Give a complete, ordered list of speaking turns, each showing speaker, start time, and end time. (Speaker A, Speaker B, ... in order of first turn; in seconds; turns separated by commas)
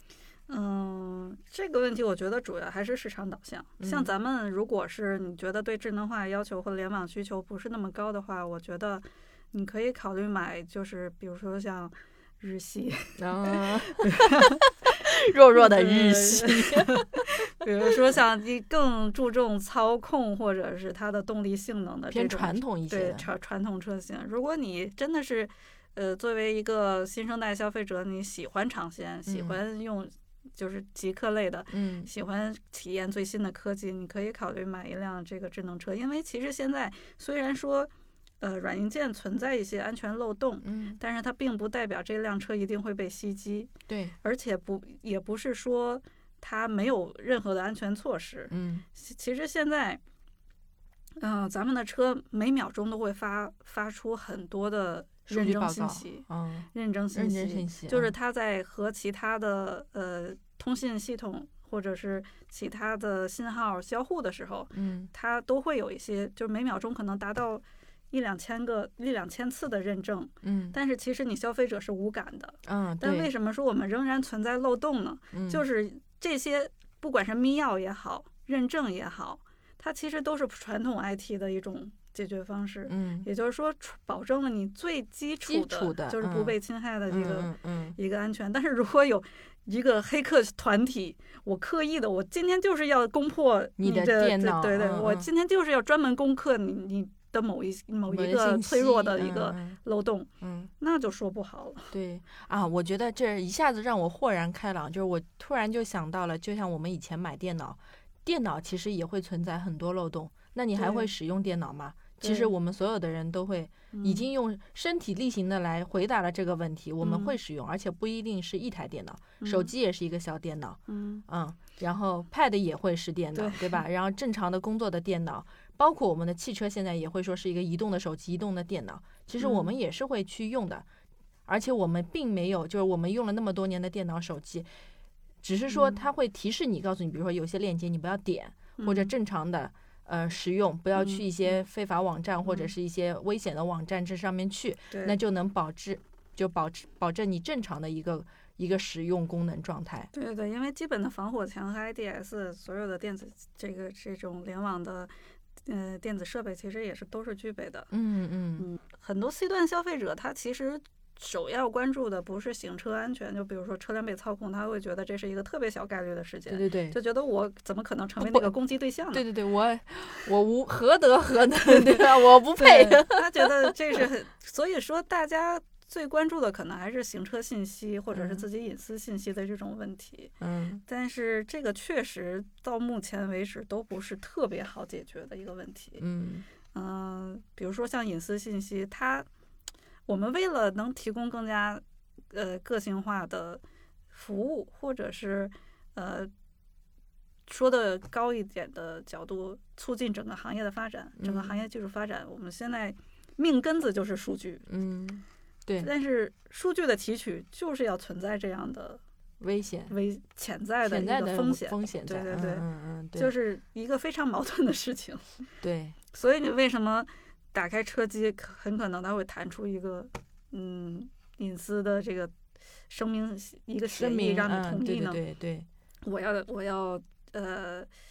Speaker A: 0.5-14.6, Speaker B: 3.8-4.1, Speaker B: 13.2-17.2, Speaker A: 15.5-43.7, Speaker B: 22.1-23.3, Speaker B: 29.3-29.6, Speaker B: 31.7-32.1, Speaker B: 40.6-41.0, Speaker B: 43.9-44.1, Speaker A: 44.2-50.0, Speaker B: 48.5-48.9, Speaker A: 51.2-101.9, Speaker B: 55.3-58.1, Speaker B: 64.7-65.1, Speaker B: 70.4-70.8, Speaker B: 72.6-73.3, Speaker B: 75.3-75.6, Speaker B: 82.9-83.2, Speaker B: 85.5-86.6, Speaker B: 87.1-88.0, Speaker B: 93.8-95.3, Speaker B: 98.0-99.8, Speaker B: 100.4-100.7, Speaker B: 101.9-130.8, Speaker A: 110.8-111.1, Speaker A: 112.2-112.5, Speaker A: 113.9-114.2, Speaker A: 117.0-117.3, Speaker A: 119.4-119.7, Speaker A: 120.9-121.2, Speaker A: 123.3-123.8, Speaker A: 129.4-129.7, Speaker B: 131.4-134.7, Speaker B: 135.4-150.1, Speaker A: 135.7-136.0, Speaker A: 138.8-139.1, Speaker A: 140.9-141.5, Speaker A: 142.4-142.7, Speaker A: 144.9-145.2, Speaker A: 150.1-155.1, Speaker A: 155.6-157.9, Speaker B: 157.9-158.7, Speaker A: 158.6-169.2, Speaker B: 166.5-167.0, Speaker B: 168.2-168.5, Speaker B: 169.1-174.0, Speaker A: 171.6-180.3, Speaker B: 178.1-178.4, Speaker B: 180.4-180.8, Speaker A: 180.9-186.0, Speaker B: 186.0-186.5, Speaker A: 186.7-189.3, Speaker A: 190.1-196.3, Speaker A: 197.5-204.6, Speaker B: 201.2-201.6, Speaker B: 204.7-205.9, Speaker A: 205.8-209.0, Speaker B: 209.4-209.9, Speaker A: 209.9-212.6, Speaker B: 210.8-213.3, Speaker A: 213.2-215.4, Speaker B: 215.6-215.9, Speaker A: 216.1-222.3, Speaker A: 222.9-225.2, Speaker B: 223.9-225.7, Speaker A: 226.0-227.9